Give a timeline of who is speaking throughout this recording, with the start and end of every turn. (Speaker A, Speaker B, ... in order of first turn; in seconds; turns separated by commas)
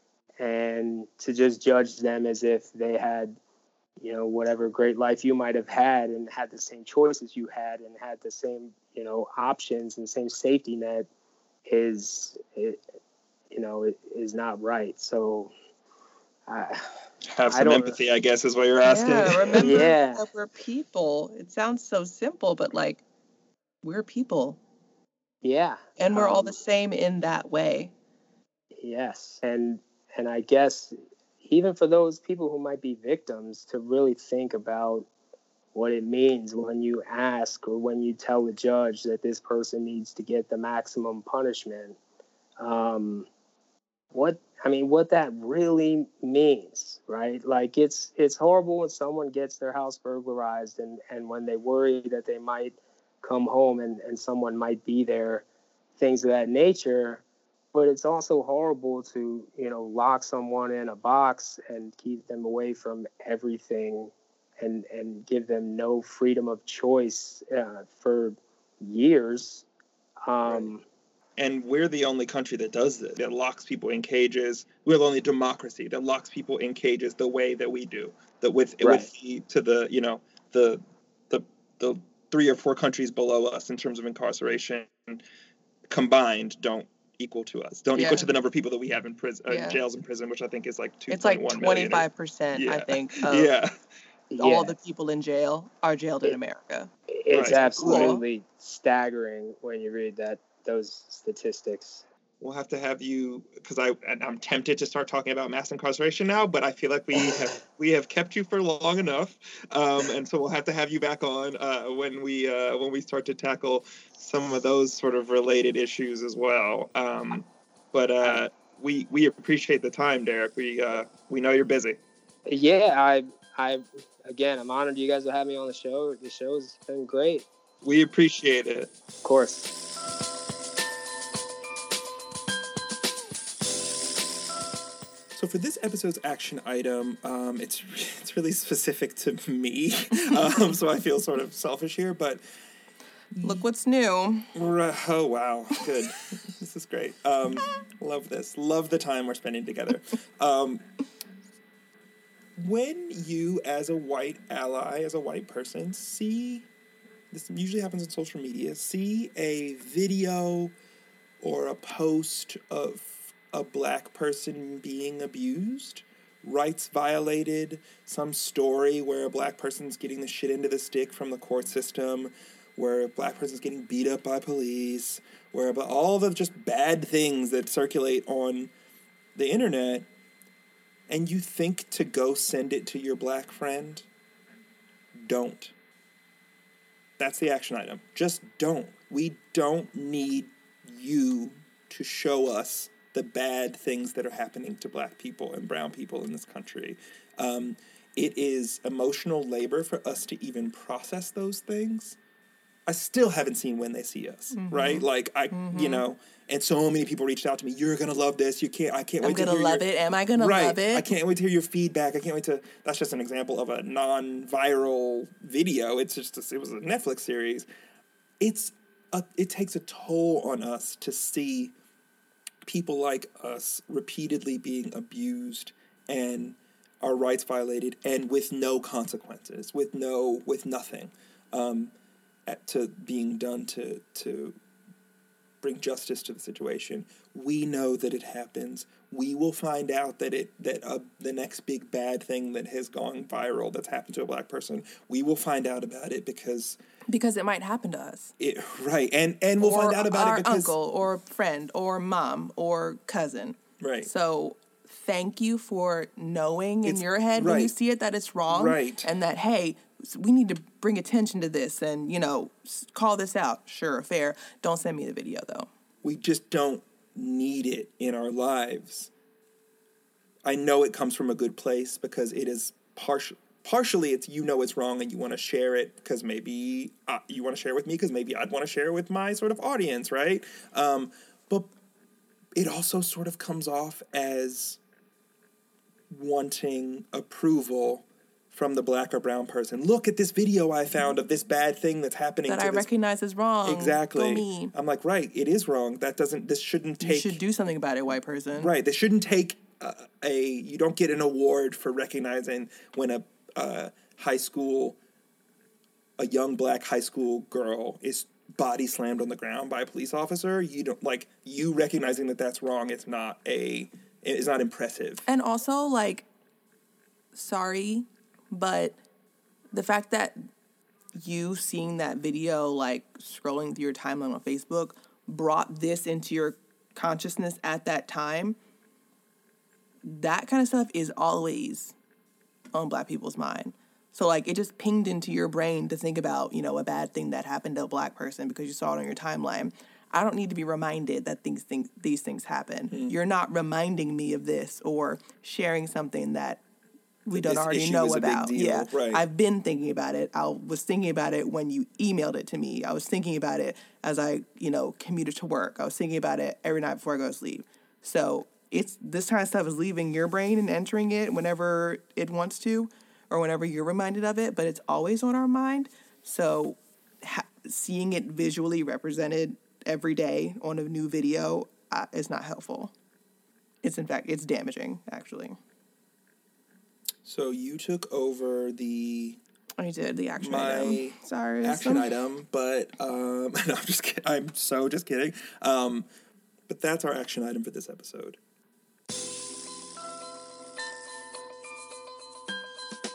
Speaker A: 0.4-3.4, Speaker A: 4.0-11.1, Speaker A: 11.7-12.8, Speaker A: 13.5-15.5, Speaker A: 16.5-16.8, Speaker B: 17.2-19.9, Speaker A: 17.5-18.0, Speaker C: 18.8-23.0, Speaker A: 19.4-20.2, Speaker C: 23.8-24.6, Speaker A: 25.4-26.6, Speaker C: 26.0-27.9, Speaker A: 28.8-35.1, Speaker A: 35.7-42.0, Speaker A: 42.6-43.3, Speaker A: 44.1-55.4, Speaker A: 56.0-57.2, Speaker A: 57.7-69.7, Speaker A: 70.2-70.8, Speaker B: 70.4-70.7, Speaker B: 71.4-85.2, Speaker A: 78.8-79.1, Speaker B: 85.9-93.7, Speaker C: 87.9-88.3, Speaker C: 89.5-89.8, Speaker C: 91.1-93.5, Speaker A: 94.3-94.7, Speaker C: 94.4-96.9, Speaker A: 97.1-102.0, Speaker B: 97.3-98.1, Speaker C: 97.4-98.2, Speaker B: 102.4-122.0, Speaker A: 122.5-127.5, Speaker B: 127.8-128.9, Speaker A: 129.2-129.7, Speaker B: 135.3-142.4, Speaker C: 143.4-144.5, Speaker B: 144.5-150.8, Speaker B: 152.6-156.7, Speaker B: 157.3-160.7, Speaker B: 161.4-178.7, Speaker B: 179.3-180.1, Speaker B: 181.1-184.1, Speaker B: 185.2-185.7, Speaker B: 187.2-202.2, Speaker B: 202.8-209.8, Speaker C: 204.5-206.1, Speaker C: 209.2-211.1, Speaker B: 210.3-217.7, Speaker B: 218.4-221.7, Speaker B: 222.6-231.9, Speaker B: 232.5-234.6, Speaker B: 235.6-246.8, Speaker C: 247.1-248.3, Speaker B: 248.4-250.7, Speaker C: 249.6-265.7, Speaker B: 253.8-254.1, Speaker B: 256.8-257.7, Speaker B: 258.5-259.1, Speaker B: 266.0-269.1, Speaker B: 270.4-281.7, Speaker B: 282.5-284.8, Speaker B: 286.1-292.9, Speaker C: 292.5-294.7, Speaker B: 293.6-297.4, Speaker C: 297.0-298.7, Speaker B: 298.5-305.0, Speaker B: 306.2-315.2, Speaker C: 315.3-316.2, Speaker C: 317.3-319.0, Speaker C: 319.7-320.4, Speaker C: 321.1-328.6, Speaker C: 330.0-331.9, Speaker C: 332.7-346.6, Speaker C: 347.2-372.9, Speaker B: 347.3-349.2, Speaker C: 373.8-375.6, Speaker B: 377.2-379.4, Speaker C: 379.8-382.1, Speaker B: 380.4-386.1, Speaker B: 386.7-388.4